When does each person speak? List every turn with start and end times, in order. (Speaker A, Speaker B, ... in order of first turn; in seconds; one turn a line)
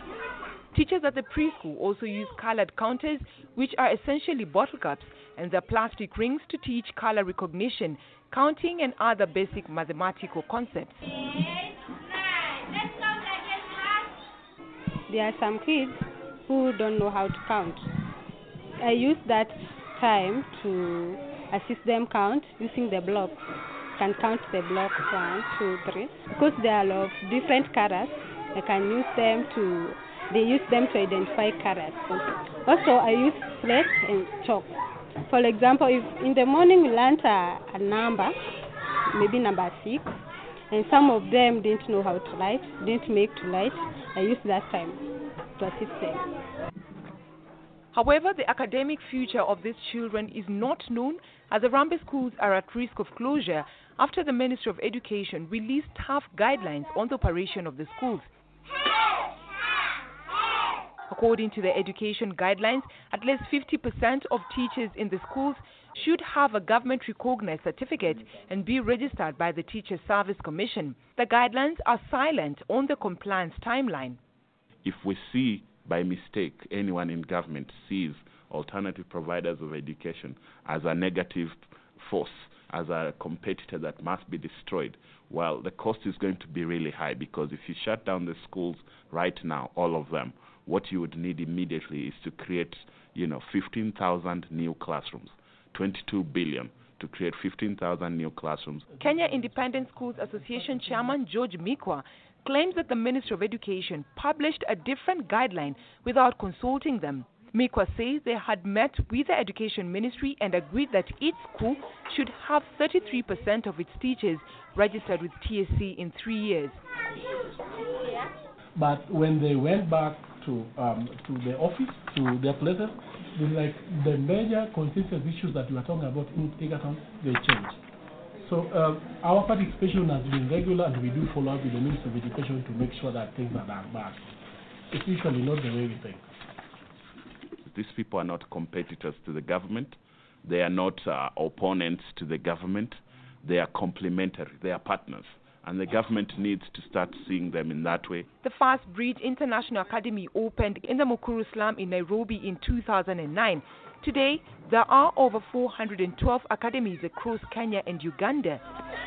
Speaker A: 0.7-11.0
Speaker B: 15.1-17.9
Speaker B: 18.8-23.4
Speaker B: 24.0-34.7
Speaker B: 35.2-38.3
Speaker B: 39.1-40.2
Speaker B: 40.7-45.0
Speaker B: 45.6-46.3
Speaker A: 47.9-58.3
Speaker A: 61.1-74.2
Speaker C: 74.8-98.9
Speaker A: 99.0-116.8
Speaker D: 99.0-101.1
Speaker D: 118.8-127.8
Speaker D: 128.4-134.3
Speaker D: 134.9-136.2
Speaker C: 137.7-148.3
Speaker A: 148.4-158.6